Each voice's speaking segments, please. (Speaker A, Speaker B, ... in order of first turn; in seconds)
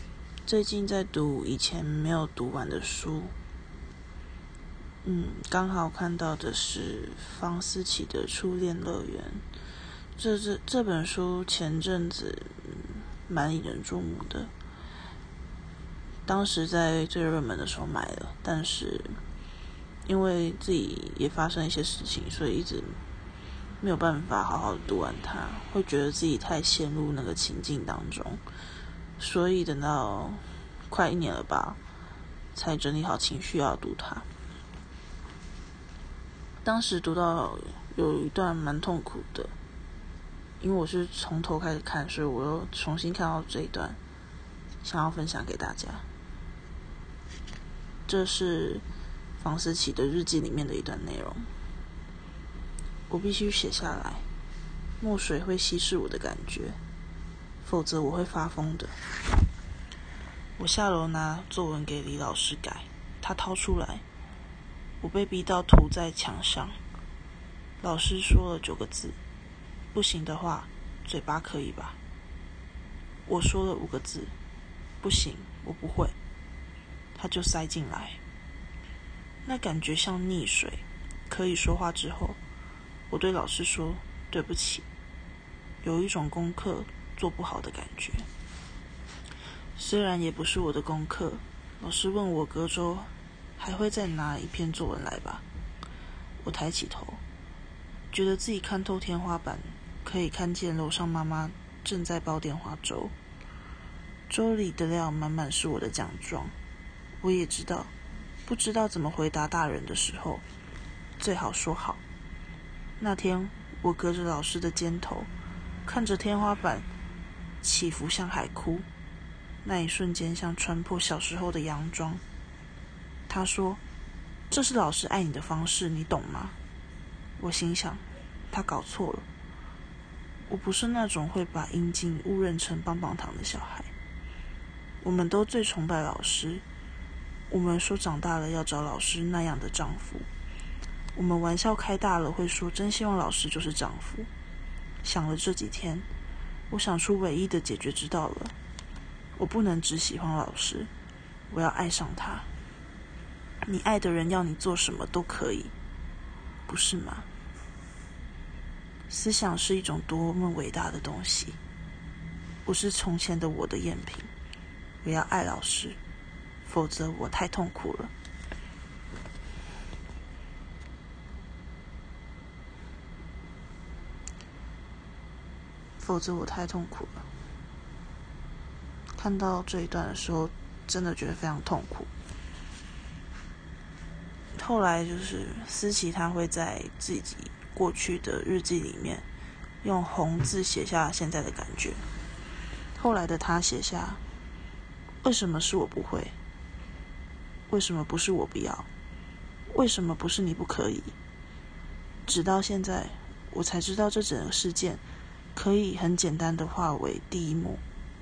Speaker A: 0.4-3.3, 5.0-9.4, 10.2-14.5, 16.2-19.2, 20.0-23.0, 23.8-28.4, 29.2-31.8, 32.5-34.3, 36.6-39.5, 40.6-44.0, 44.8-46.0, 48.1-48.8, 49.4-51.5, 53.1-54.3, 55.0-56.8, 57.6-59.0, 60.6-64.0, 65.0-66.8, 67.8-69.2, 69.9-72.0, 73.2-74.3, 75.0-76.2, 77.1-78.2, 79.4-82.4, 83.1-84.8, 85.8-88.3, 89.8-95.4, 96.4-97.2, 98.1-103.1, 104.3-106.5, 107.2-107.9, 108.5-110.4, 111.2-112.0, 113.0-115.3, 115.8-116.9, 117.6-118.9, 119.6-122.2, 123.3-123.8, 124.5-126.5, 127.4-129.2, 130.5-133.9, 135.0-136.6, 137.5-140.3, 141.1-144.3, 145.0-146.1, 146.7-148.5, 149.3-150.9, 151.5-152.5, 153.6-155.7, 156.7-157.3, 159.1-161.6, 162.6-164.3, 165.0-166.0, 166.6-168.1, 176.0-177.3, 179.2-182.1, 184.5-189.2, 189.8-192.0, 192.9-194.2, 195.2-196.3, 197.7-198.9, 199.7-201.1, 202.2-205.0, 205.5-207.8